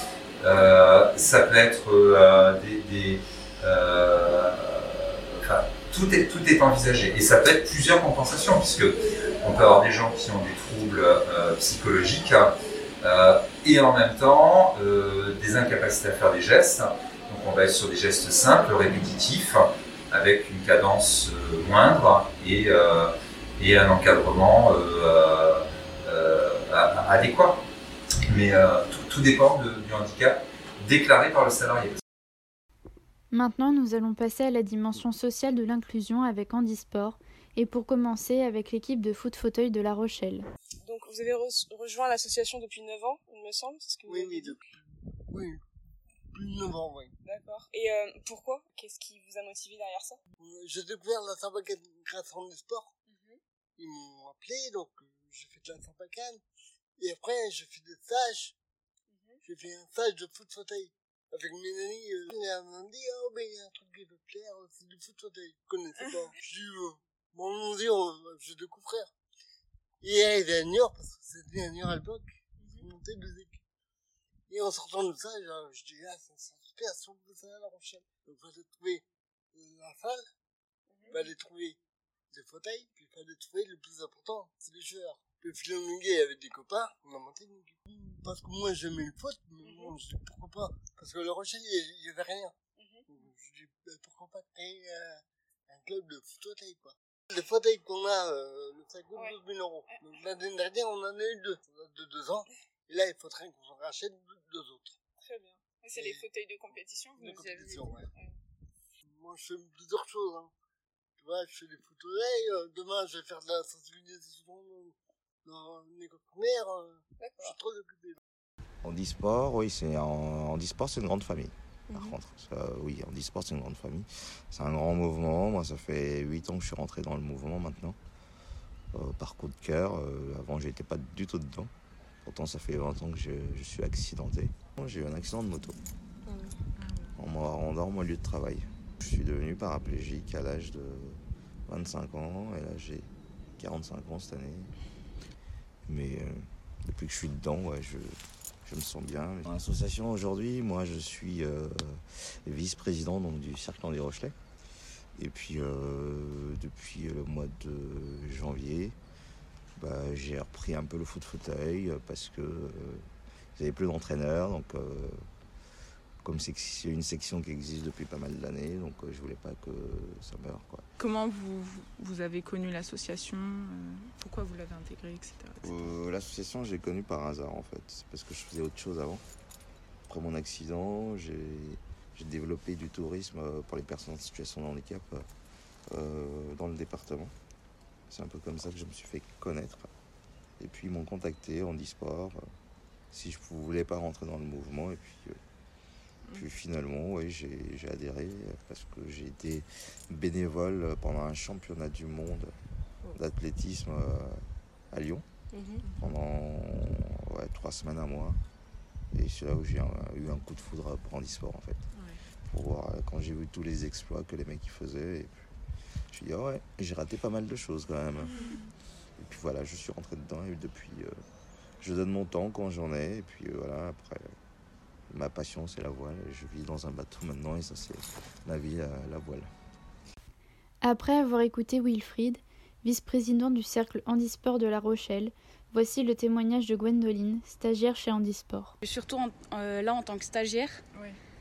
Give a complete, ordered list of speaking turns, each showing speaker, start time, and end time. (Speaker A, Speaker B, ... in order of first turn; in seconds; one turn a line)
Speaker A: 0.4-27.6
Speaker A: 28.3-32.0
Speaker B: 33.3-40.5
Speaker C: 40.8-44.6
Speaker D: 44.0-44.6
Speaker D: 45.3-45.6
Speaker D: 46.3-47.1
Speaker C: 47.2-50.2
Speaker D: 50.4-52.9
Speaker C: 53.1-53.4
Speaker D: 53.8-56.4
Speaker D: 57.0-58.5
Speaker C: 59.1-59.4
Speaker D: 59.4-69.1
Speaker D: 70.0-73.6
Speaker C: 72.6-72.9
Speaker D: 74.5-79.0
Speaker D: 79.5-80.2
Speaker C: 80.9-81.3
Speaker D: 81.1-81.8
Speaker D: 82.3-92.5
Speaker C: 89.6-90.0
Speaker C: 92.8-93.3
Speaker D: 93.1-105.0
Speaker C: 105.2-108.3
Speaker D: 105.9-106.2
Speaker D: 107.2-108.1
Speaker D: 109.0-110.5
Speaker D: 111.2-118.2
Speaker C: 117.2-117.5
Speaker E: 118.8-128.0
Speaker C: 121.9-122.2
Speaker E: 128.9-131.7
Speaker E: 132.2-135.8
Speaker C: 136.2-136.5
Speaker E: 137.2-144.7
Speaker E: 145.8-154.3
Speaker E: 155.2-158.9
Speaker E: 159.8-165.3
Speaker E: 166.2-170.8
Speaker F: 171.0-175.8
Speaker E: 175.6-179.2
Speaker E: 180.1-185.2
Speaker E: 185.9-187.3
Speaker E: 188.1-189.9
Speaker E: 190.6-192.4
Speaker E: 193.1-195.4
Speaker E: 196.3-202.5
Speaker E: 203.1-205.2
Speaker C: 205.5-205.8
Speaker E: 205.8-208.4
Speaker E: 209.1-211.8
Speaker E: 212.5-215.5
Speaker E: 216.1-218.6
Speaker F: 218.3-218.6
Speaker E: 219.2-221.2
Speaker E: 221.8-224.3
Speaker E: 225.1-229.5
Speaker B: 230.8-238.7
Speaker G: 238.8-240.8